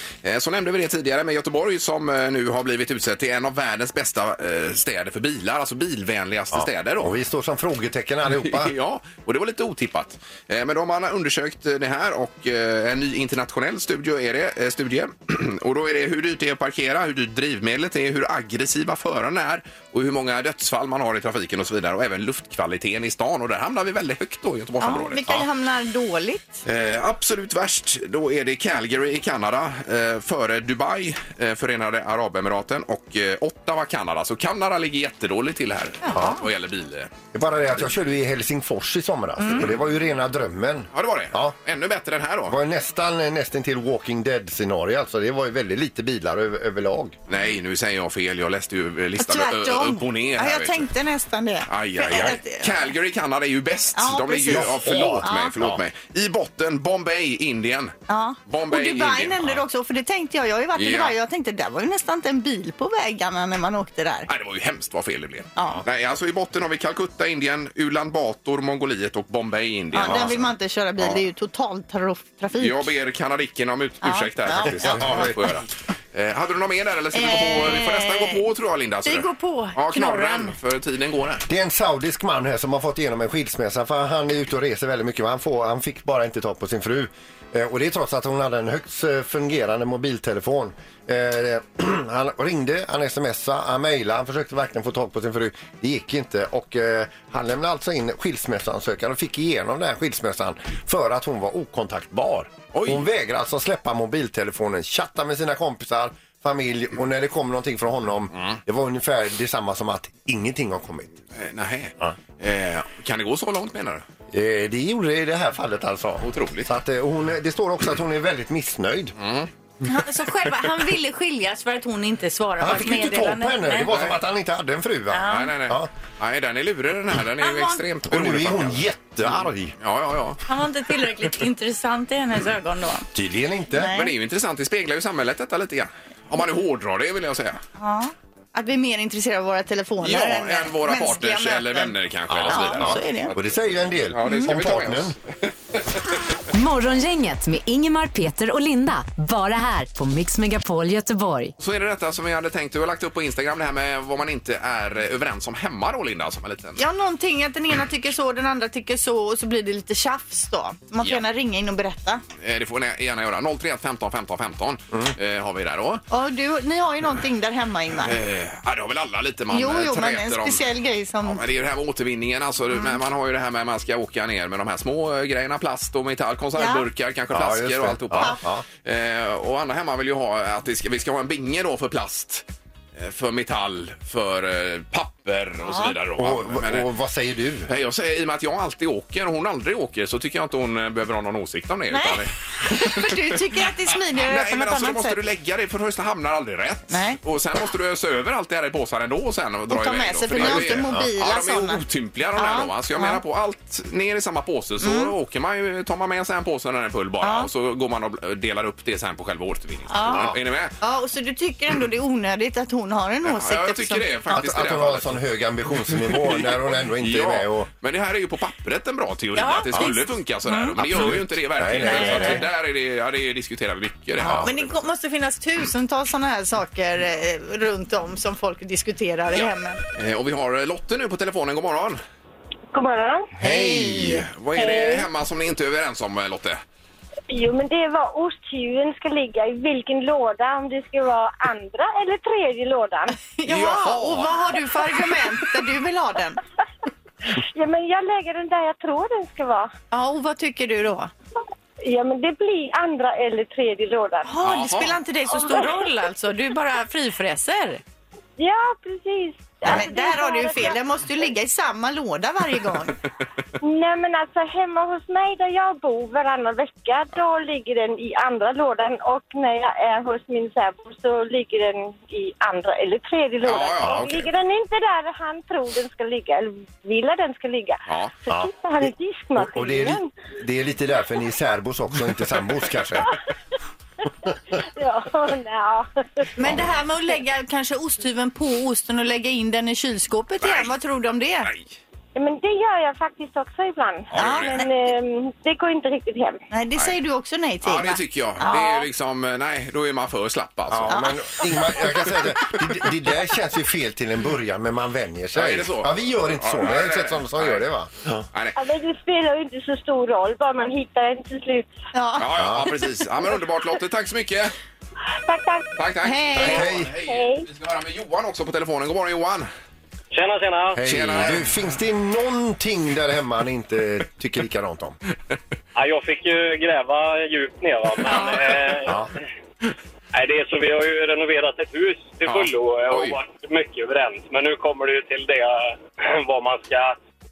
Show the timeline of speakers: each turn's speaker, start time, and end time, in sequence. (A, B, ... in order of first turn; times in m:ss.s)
0:00.2-0:07.1 A
0:06.5-0:08.7 B
0:08.3-0:25.4 A
0:24.8-0:26.6 C
0:26.6-0:37.1 A
0:36.0-0:36.4 C
0:36.1-0:36.4 B
0:37.3-0:41.5 B
0:40.9-0:42.6 A
0:42.5-0:47.2 B
0:47.3-0:50.9 A
0:49.2-0:52.9 C
0:51.7-0:57.9 A
0:53.9-0:55.5 C
0:54.5-0:55.8 B
0:58.1-1:04.3 C
0:58.5-0:59.6 A
1:00.8-1:01.2 A
1:04.3-1:10.5 A
1:05.6-1:05.8 C
1:09.9-1:12.9 C
1:10.0-1:10.3 B
1:12.6-1:21.4 A
1:14.0-1:15.3 C
1:14.6-1:15.4 B
1:17.1-1:18.4 C
1:19.0-1:20.5 C
1:21.5-1:51.1 B
1:42.7-1:43.0 A
1:51.3-1:54.0 A
1:54.3-1:59.1 B
1:56.2-1:56.7 A
1:59.2-1:59.5 A
1:59.8-2:03.9 C
2:02.6-2:05.9 B
2:05.1-2:05.5 C
2:05.3-2:08.9 A
2:07.4-2:07.8 C
2:08.1-2:09.7 B
2:09.8-2:10.4 A
2:10.4-2:13.1 C
2:13.1-2:13.9 B
2:13.8-2:14.1 C
2:13.9-2:17.6 A
2:17.8-2:23.3 C
2:20.0-2:23.4 A
2:22.3-2:25.2 B
2:24.1-2:25.9 A
2:26.5-2:31.5 D
2:31.6-2:36.8 A
2:36.8-2:42.2 C
2:42.4-2:46.0 A
2:46.1-2:48.2 C
2:48.0-2:50.6 A
2:49.5-2:51.4 C
2:51.2-3:02.4 A
2:56.6-2:56.8 C
2:57.3-2:58.6 B
3:03.0-3:06.9 A
3:05.6-3:05.9 C
3:06.2-3:07.7 B
3:07.7-3:13.1 A
3:11.9-3:15.2 C
3:14.1-3:30.7 A
3:16.9-3:17.2 C
3:19.7-3:21.8 C
3:20.4-3:21.1 B
3:22.4-3:23.2 C
3:24.8-3:25.1 C
3:27.2-3:27.5 C
3:29.9-3:30.3 C
3:30.1-3:30.4 B
3:30.8-3:34.4 C
3:33.2-3:35.2 A
3:34.3-3:37.7 B
3:36.3-3:44.7 A
3:39.3-3:40.7 C
3:40.8-3:42.4 B
3:41.8-3:42.4 C
3:44.2-3:49.8 C
3:44.2-3:44.5 B
3:49.9-3:52.0 A
3:52.7-3:53.3 E
3:53.4-3:54.3 C
3:53.4-3:56.6 A
3:57.3-4:03.2 E
4:03.4-4:06.4 C
4:03.5-4:04.4 A
4:07.3-4:09.7 E
4:09.9-4:11.1 C
4:11.8-4:14.3 E
4:14.2-4:17.8 C
4:14.4-4:15.0 A
4:18.4-4:20.8 E
4:19.6-4:23.0 C
4:23.6-4:40.1 E
4:33.4-4:34.2 A
4:33.8-4:34.2 B
4:37.9-4:38.1 A
4:38.3-4:43.1 B
4:44.2-4:46.3 E
4:46.4-4:51.5 C
4:50.4-4:50.7 A
4:51.4-4:51.7 A
4:52.1-4:56.4 E
4:54.1-4:54.6 A
4:54.1-4:54.6 C
4:56.5-4:58.8 C
4:57.6-5:01.8 A
5:00.7-5:08.2 B
5:00.9-5:01.2 C
5:05.3-5:07.6 A
5:08.3-5:08.6 A
5:08.6-5:11.7 E
5:11.9-5:12.3 C
5:12.2-5:14.5 A
5:12.3-5:12.7 B
5:15.2-5:15.7 E
5:15.8-5:19.5 A
5:16.0-5:16.7 C
5:16.4-5:16.9 B
5:17.0-5:17.4 E
5:20.1-5:20.8 F
5:20.8-5:25.0 B
5:20.8-5:21.5 A
5:25.7-5:29.0 F
5:28.8-5:29.1 B
5:30.1-5:37.0 F
5:32.2-5:33.2 A